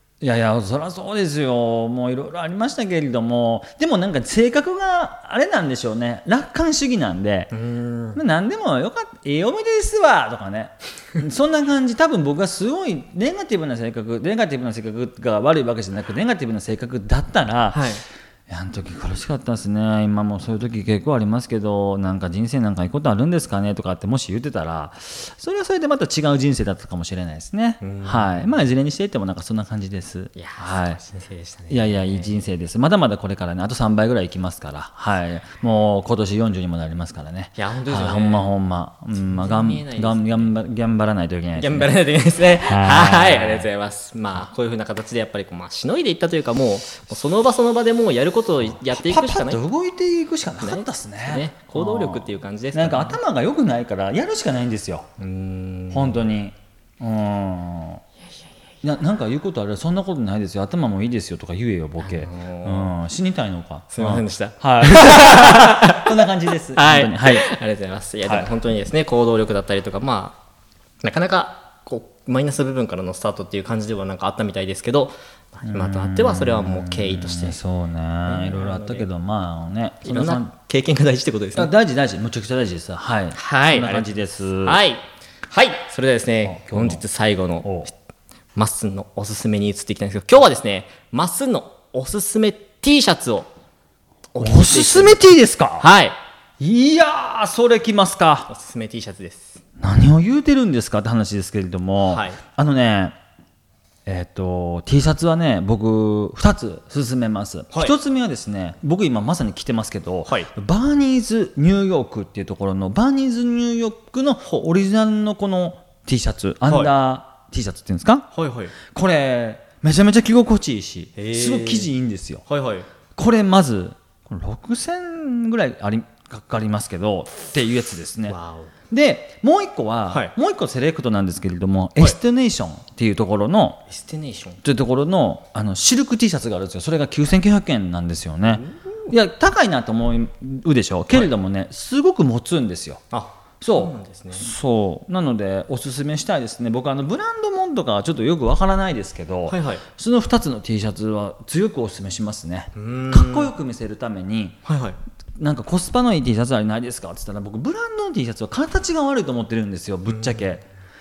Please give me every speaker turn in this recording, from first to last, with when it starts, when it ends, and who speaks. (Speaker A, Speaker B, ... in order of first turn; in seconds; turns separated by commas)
Speaker A: 0.2-7.5, Speaker B: 7.5-8.2, Speaker A: 8.1-17.9, Speaker B: 17.7-18.0, Speaker A: 18.5-31.0, Speaker B: 27.8-28.5, Speaker B: 30.4-32.4, Speaker A: 31.7-43.7, Speaker B: 37.6-38.5, Speaker B: 39.1-40.5, Speaker B: 41.6-49.6, Speaker A: 48.9-55.1, Speaker B: 50.6-53.2, Speaker B: 55.2-56.2, Speaker A: 55.9-58.0, Speaker A: 58.8-67.5, Speaker B: 62.0-62.9, Speaker B: 63.9-66.2, Speaker B: 66.7-70.4, Speaker A: 68.2-68.5, Speaker B: 71.0-77.6, Speaker A: 75.6-80.5, Speaker B: 78.2-79.0, Speaker B: 80.0-81.7, Speaker A: 81.5-84.8, Speaker B: 83.3-87.9, Speaker A: 86.4-87.0, Speaker A: 87.6-87.9, Speaker B: 88.5-93.5, Speaker B: 94.3-95.3, Speaker A: 94.4-95.9, Speaker B: 95.8-96.2, Speaker A: 96.6-98.5, Speaker B: 98.5-99.6, Speaker A: 99.8-103.1, Speaker B: 102.1-102.4, Speaker A: 104.0-118.3, Speaker B: 116.7-116.9, Speaker B: 118.3-118.7, Speaker A: 118.9-122.4, Speaker B: 121.2-121.9, Speaker B: 122.5-122.9, Speaker A: 123.2-128.3, Speaker B: 128.3-128.7, Speaker A: 128.9-133.8, Speaker B: 133.9-134.6, Speaker A: 134.6-143.0, Speaker B: 138.5-139.0, Speaker B: 143.1-144.5, Speaker A: 143.6-154.6, Speaker B: 149.5-149.8, Speaker B: 152.7-153.5, Speaker B: 154.6-155.0, Speaker A: 155.4-160.6, Speaker B: 160.1-160.5